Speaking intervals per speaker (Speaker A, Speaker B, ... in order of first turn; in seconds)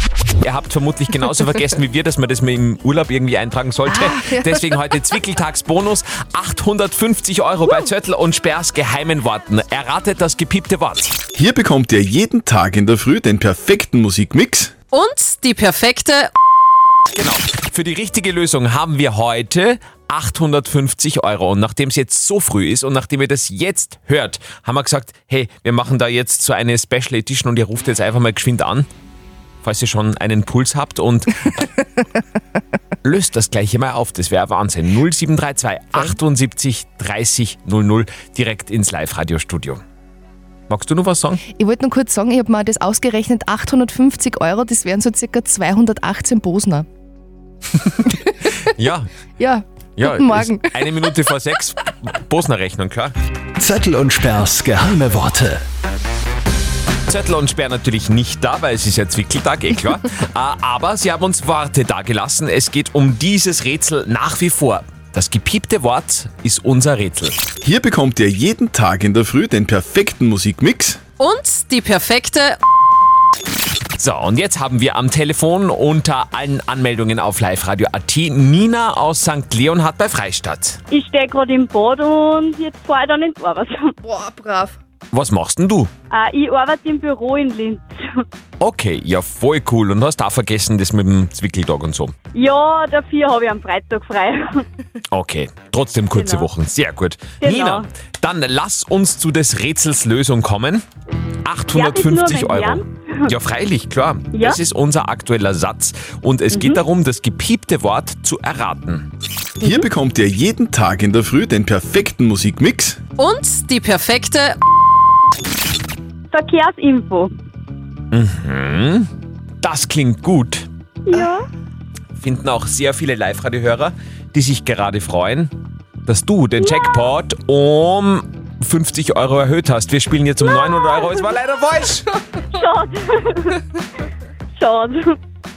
Speaker A: 0.4-11.2, 17.1-28.9, 29.6-31.7, 33.0-39.8, 40.7-41.4, 48.7-49.1, 50.0-53.1, 57.1-67.4, 74.0-80.8, 85.1-85.9, 88.6-92.1, 95.1-100.8, 101.5-109.1, 118.1-119.1, 119.6-120.7, 122.2-125.5, 126.1-132.1
Speaker B: 3.9-4.8, 41.6-46.9, 49.4-51.0, 84.0-84.8
Speaker C: 11.3-14.7, 67.6-71.0, 109.7-113.0
Speaker D: 14.9-16.3, 71.2-72.6, 113.2-114.6
Speaker E: 53.6-55.6
Speaker F: 80.9-83.8, 86.1-87.9, 92.3-94.7, 96.1-96.5, 97.4-97.9, 101.7-102.9, 104.3-104.6, 106.5-106.8, 116.3-117.3, 121.1-121.4, 126.6-127.1, 130.5-131.3, 132.5-133.6, 134.6-135.2